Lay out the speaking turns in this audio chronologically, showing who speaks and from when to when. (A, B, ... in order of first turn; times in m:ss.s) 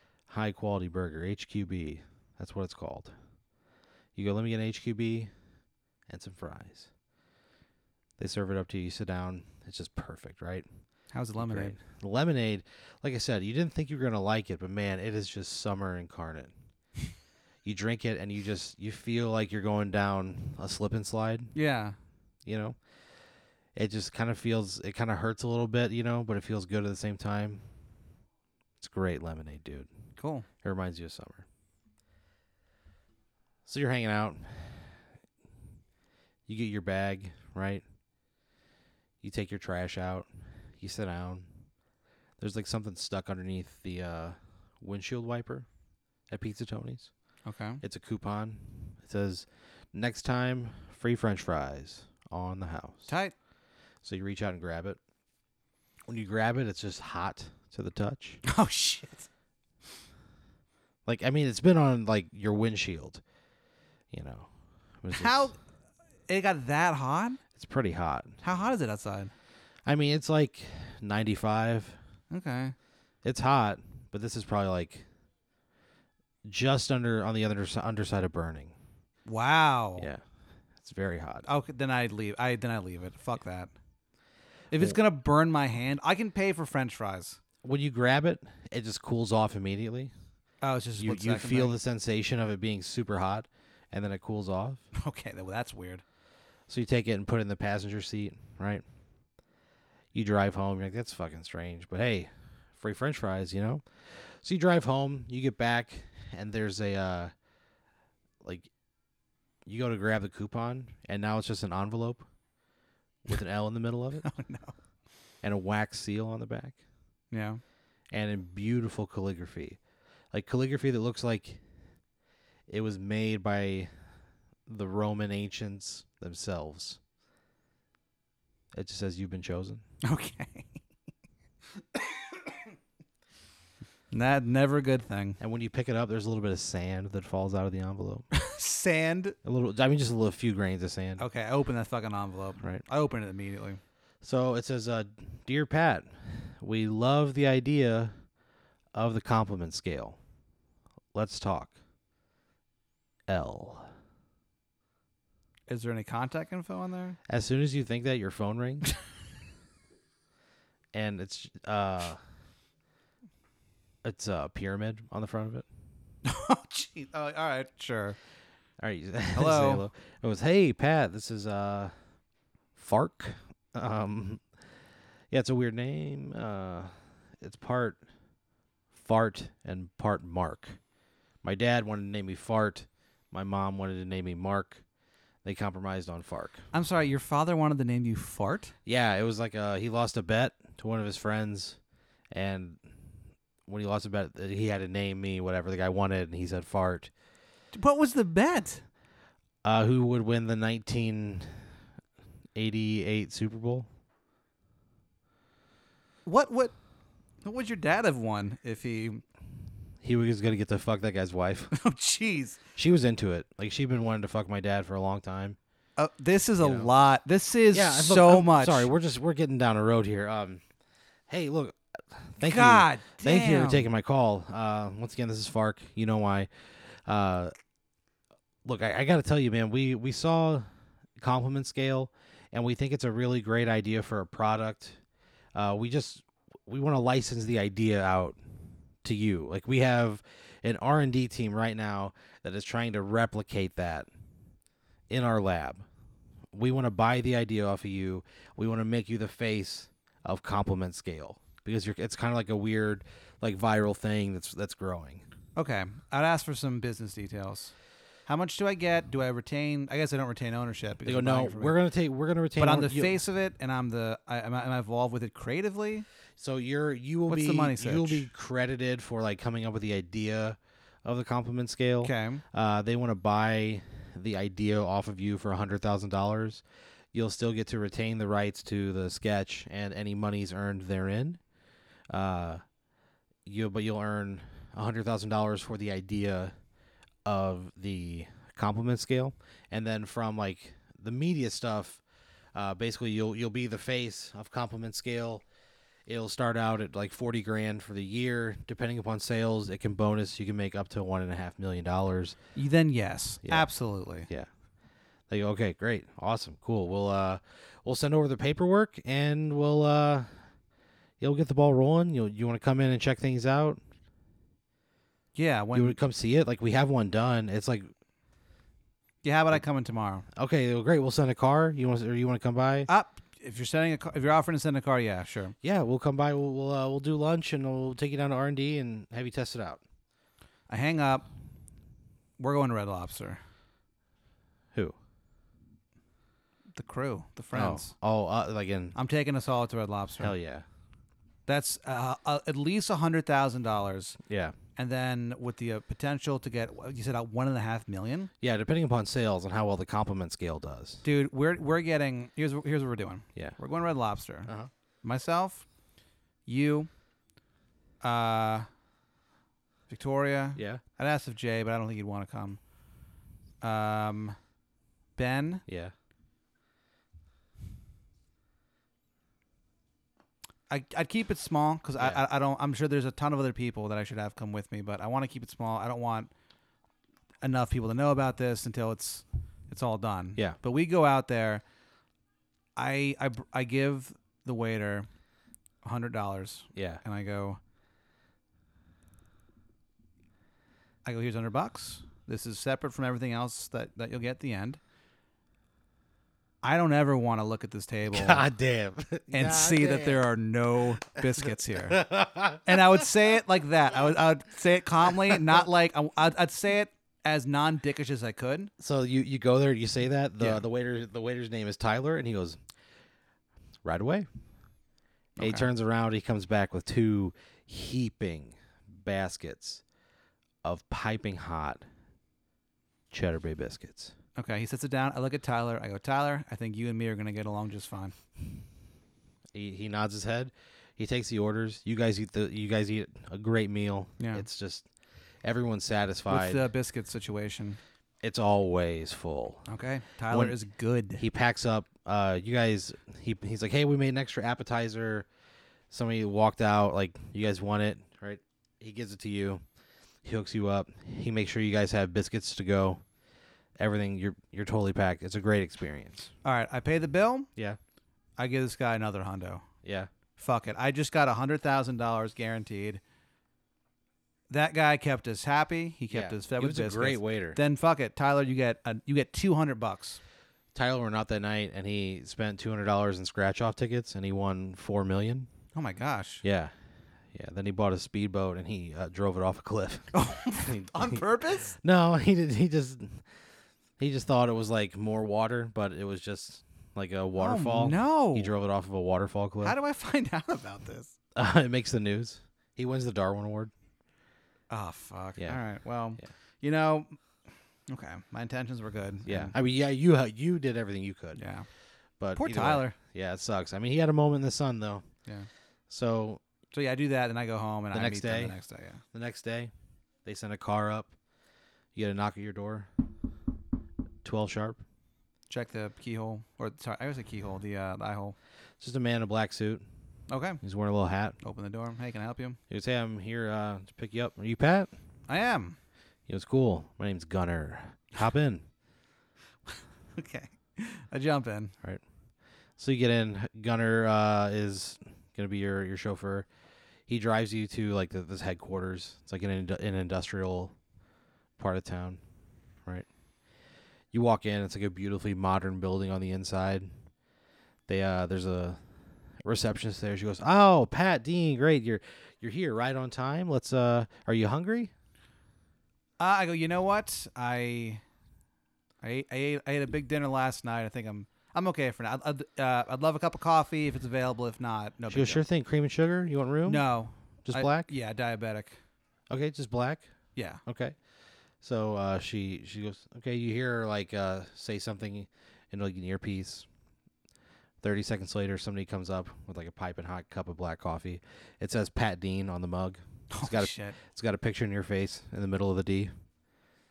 0:00.3-0:03.1 A
0:04.2-0:05.3 A
0:06.1-0:06.9 A
0:08.2-0:10.7 A
0:11.1-0:11.8 B
0:11.4-0:16.5 A
0:17.6-0:21.5 A
0:21.6-0:22.0 B
0:22.5-0:22.8 A
0:23.8-0:27.6 A
0:28.8-0:29.9 A
0:30.2-0:30.5 B
0:30.6-0:31.4 A
0:33.7-0:34.9 A
0:36.5-0:37.8 A
0:39.2-0:40.3 A
0:40.8-0:41.5 A
0:42.4-0:45.7 A
0:46.3-0:47.1 A
0:47.4-0:47.8 B
0:47.8-0:53.1 A
0:53.1-0:53.3 B
0:54.0-0:55.0 A
0:56.1-0:58.4 A
0:58.4-0:59.3 B
1:01.1-1:03.2 A
1:04.1-1:04.5 A
1:05.0-1:05.5 A
1:05.1-1:05.5 B
1:06.3-1:07.4 B
1:07.6-1:08.4 A
1:08.4-1:09.3 B
1:09.9-1:12.0 A
1:12.3-1:12.8 B
1:13.2-1:15.1 A
1:16.4-1:18.8 A
1:19.3-1:20.1 B
1:20.8-1:21.5 A
1:21.4-1:23.7 B
1:24.7-1:27.4 B
1:27.6-1:30.1 A
1:30.6-1:31.8 B
1:31.0-1:34.8 A
1:34.9-1:36.0 B
1:36.7-1:38.8 A
1:40.1-1:47.3 A
1:48.4-1:48.7 A
1:49.7-1:52.2 A
1:53.3-1:54.3 A
1:54.2-1:54.7 B
1:55.4-1:56.8 A
1:57.3-1:57.6 B
1:58.1-1:59.8 A
2:00.3-2:01.6 A
2:02.7-2:03.9 A
2:04.7-2:07.0 A
2:08.7-2:09.8 A
2:10.0-2:10.8 B
2:11.8-2:12.7 B
2:14.1-2:15.4 B
2:15.4-2:18.2 A
2:18.3-2:19.4 B
2:19.4-2:21.2 A
2:21.2-2:23.8 B
2:24.2-2:28.1 A
2:28.9-2:30.2 A
2:31.1-2:31.8 A
2:33.3-2:33.9 A
2:35.7-2:37.2 B
2:37.3-2:38.9 A
2:40.9-2:42.2 A
2:44.0-2:45.6 A
2:46.2-2:48.2 B
2:48.8-2:51.9 A
2:49.4-2:49.8 B
2:52.8-2:54.4 A
2:55.3-2:58.0 A
2:58.9-3:00.8 A
3:01.4-3:04.8 A
3:05.4-3:06.7 A
3:06.7-3:08.7 B
3:08.9-3:11.8 A
3:12.3-3:12.8 A
3:13.7-3:17.1 A
3:17.7-3:18.8 B
3:19.6-3:21.5 A
3:22.6-3:23.9 A
3:26.2-3:26.8 B
3:27.4-3:29.2 B
3:30.0-3:31.7 A
3:31.7-3:32.6 B
3:32.8-3:35.6 A
3:36.0-3:38.9 B
3:36.6-3:36.9 A
3:37.7-3:40.6 A
3:41.3-3:46.5 A
3:42.4-3:43.9 B
3:47.1-3:47.5 A
3:48.6-3:50.7 A
3:51.2-3:55.0 A
3:55.6-3:58.4 A
3:59.0-4:04.1 A
4:05.1-4:05.8 A
4:06.5-4:15.3 A
4:15.6-4:17.7 B
4:18.3-4:21.8 B
4:21.0-4:23.2 A
4:22.6-4:26.1 B
4:26.4-4:36.6 A
4:27.3-4:28.3 B
4:32.0-4:32.4 B
4:37.1-4:41.4 A
4:42.1-4:42.6 A
4:43.5-4:46.5 A
4:47.3-4:52.0 A
4:52.6-4:55.4 A
4:56.1-5:02.4 A
5:02.6-5:04.3 B
5:03.4-5:03.7 A
5:05.3-5:10.4 A
5:11.2-5:13.8 A
5:15.4-5:16.0 B
5:15.7-5:17.9 A
5:19.2-5:20.3 B
5:20.3-5:22.9 A
5:22.9-5:25.6 B
5:25.6-5:29.8 A
5:30.7-5:31.3 B
5:32.4-5:33.4 B
5:36.7-5:37.9 B
5:37.5-5:39.0 A
5:39.0-5:40.4 B
5:40.2-5:40.6 A
5:41.5-5:44.2 B
5:44.3-5:44.5 A
5:44.8-5:48.3 B
5:48.4-5:51.0 A
5:51.0-5:54.5 B
5:55.0-5:55.6 B
5:56.5-5:56.9 B
5:58.0-5:58.7 B
5:59.9-6:02.6 B
6:00.6-6:00.8 A
6:03.6-6:04.4 B
6:05.2-6:05.6 B
6:05.7-6:05.9 A
6:10.7-6:16.3 B
6:17.4-6:21.6 B
6:22.8-6:25.1 B
6:25.8-6:27.6 B
6:26.8-6:27.0 A
6:31.0-6:34.8 B
6:36.6-6:38.5 B
6:38.1-6:40.2 A
6:39.3-6:48.7 B
6:41.9-6:42.8 A
6:48.8-6:52.6 A
6:50.4-6:50.6 B
6:53.8-6:54.3 A
6:55.4-6:55.7 B
6:55.4-6:59.8 A
7:00.6-7:01.8 A
7:03.1-7:04.1 A
7:04.4-7:08.1 B
7:09.6-7:14.9 A
7:14.2-7:14.5 B
7:15.4-7:16.7 A
7:16.3-7:17.8 B
7:18.2-7:19.6 A
7:19.7-7:21.2 B
7:20.3-7:20.6 A
7:21.2-7:25.3 A
7:25.9-7:29.6 A
7:30.2-7:33.0 A
7:33.8-7:36.3 A
7:36.4-7:37.5 B
7:38.4-7:39.6 B
7:39.8-7:40.1 A
7:40.4-7:43.0 B
7:44.5-7:50.2 B
7:46.1-7:47.6 A
7:50.8-7:55.5 A
7:55.7-7:56.4 B
7:56.4-7:56.7 A
7:57.3-8:01.2 A
8:00.1-8:01.8 B
8:01.8-8:03.2 A
8:04.0-8:09.8 A
8:07.4-8:08.5 B
8:09.6-8:11.1 B
8:11.4-8:13.7 A
8:14.7-8:17.2 B
8:17.9-8:19.5 B
8:19.3-8:21.4 A
8:21.4-8:21.7 B
8:22.2-8:25.1 A
8:22.4-8:23.0 B
8:25.9-8:26.4 A
8:26.7-8:29.0 B
8:27.9-8:28.6 A
8:29.1-8:29.7 A
8:30.2-8:31.1 A
8:32.0-8:32.9 A
8:34.2-8:34.8 A
8:35.5-8:38.4 B
8:38.8-8:39.8 A
8:40.3-8:40.6 B
8:40.6-8:41.4 A
8:41.4-8:42.6 B
8:42.7-8:44.9 A
8:45.3-8:45.8 B
8:46.3-8:48.6 A
8:49.7-8:51.7 B
8:52.8-8:56.5 A
8:57.1-9:00.7 A
9:01.6-9:02.2 A
9:04.1-9:06.9 A
9:07.9-9:08.8 A
9:09.4-9:14.9 A
9:16.2-9:18.0 B
9:19.0-9:25.4 B
9:25.1-9:26.8 A
9:26.6-9:28.8 B
9:27.4-9:27.9 A
9:29.3-9:30.1 A
9:30.4-9:30.6 B
9:30.7-9:31.0 A
9:31.6-9:36.7 A
9:37.8-9:46.1 A
9:43.3-9:44.0 B